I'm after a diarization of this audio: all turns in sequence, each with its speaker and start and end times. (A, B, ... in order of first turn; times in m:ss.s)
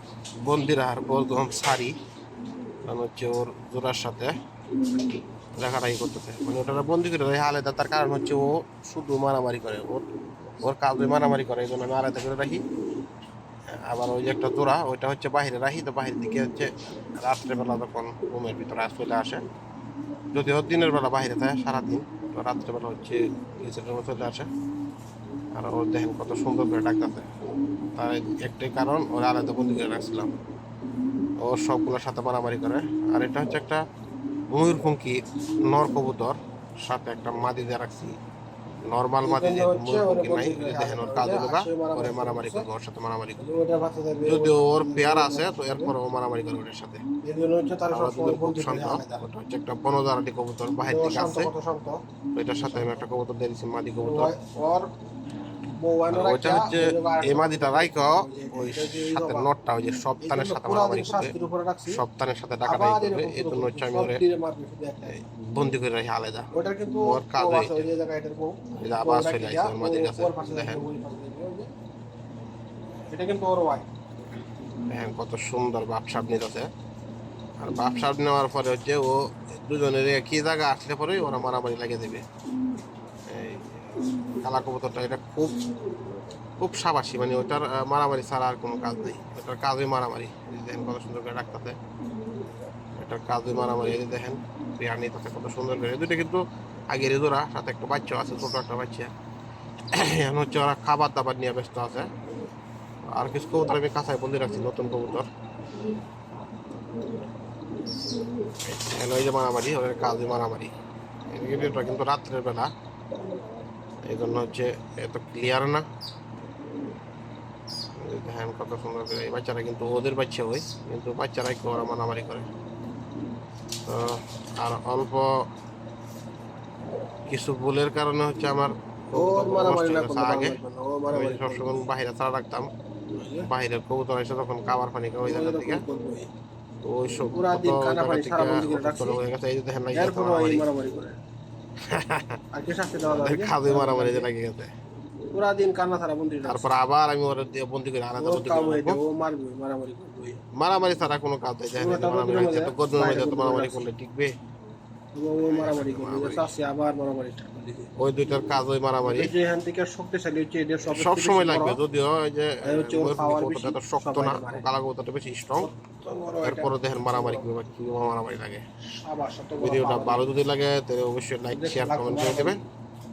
0:00.4-0:02.0 A
0:02.8-0:04.3 A
0:05.6-0:10.1 A
0:10.6-0:12.6 A
0:13.9-0:19.4 A
0:20.3-0:24.5 A
0:25.6-0:27.3 A
0:28.0-0:30.3 A
0:31.4-0:33.8 A
0:34.5-0:38.2 A
0:38.9-0:43.4 A
0:39.2-0:42.7 B
0:43.4-0:46.0 B
0:44.3-0:47.0 A
0:47.2-0:49.3 B
0:47.9-0:51.5 A
0:50.8-0:52.0 B
0:52.3-0:54.3 A
0:54.0-0:54.9 B
0:55.8-0:59.5 B
0:56.1-1:01.3 A
1:00.2-1:02.0 B
1:01.9-1:04.2 A
1:02.7-1:05.1 B
1:05.1-1:06.5 A
1:06.5-1:11.7 B
1:07.0-1:07.9 A
1:08.8-1:10.8 A
1:13.1-1:13.9 B
1:14.9-1:16.7 A
1:17.6-1:22.2 A
1:23.3-1:23.8 A
1:24.4-1:25.6 A
1:26.6-1:31.8 A
1:33.0-1:39.1 A
1:39.9-1:42.1 A
1:43.1-1:45.3 A
1:48.6-1:50.7 A
1:51.3-1:52.7 A
1:54.1-1:55.8 A
1:58.0-2:02.5 A
2:03.9-2:05.4 A
2:07.3-2:10.6 A
2:09.1-2:11.9 B
2:11.1-2:12.7 A
2:13.1-2:13.5 B
2:13.4-2:15.8 A
2:15.2-2:16.3 B
2:16.8-2:20.6 A
2:17.3-2:19.2 B
2:19.9-2:21.2 B
2:21.9-2:22.4 A
2:22.5-2:24.3 B
2:23.1-2:24.7 A
2:25.3-2:26.8 B
2:26.4-2:29.0 A
2:28.2-2:30.4 B
2:30.5-2:34.3 A
2:31.8-2:33.9 B
2:35.1-2:37.9 B
2:35.4-2:36.5 A
2:38.0-2:39.3 A
2:39.0-2:41.8 B
2:40.9-2:45.7 A
2:42.6-2:44.7 B
2:45.6-2:47.5 B
2:46.4-2:48.6 A
2:49.0-2:50.3 B
2:49.6-2:52.6 A
2:51.5-2:52.6 B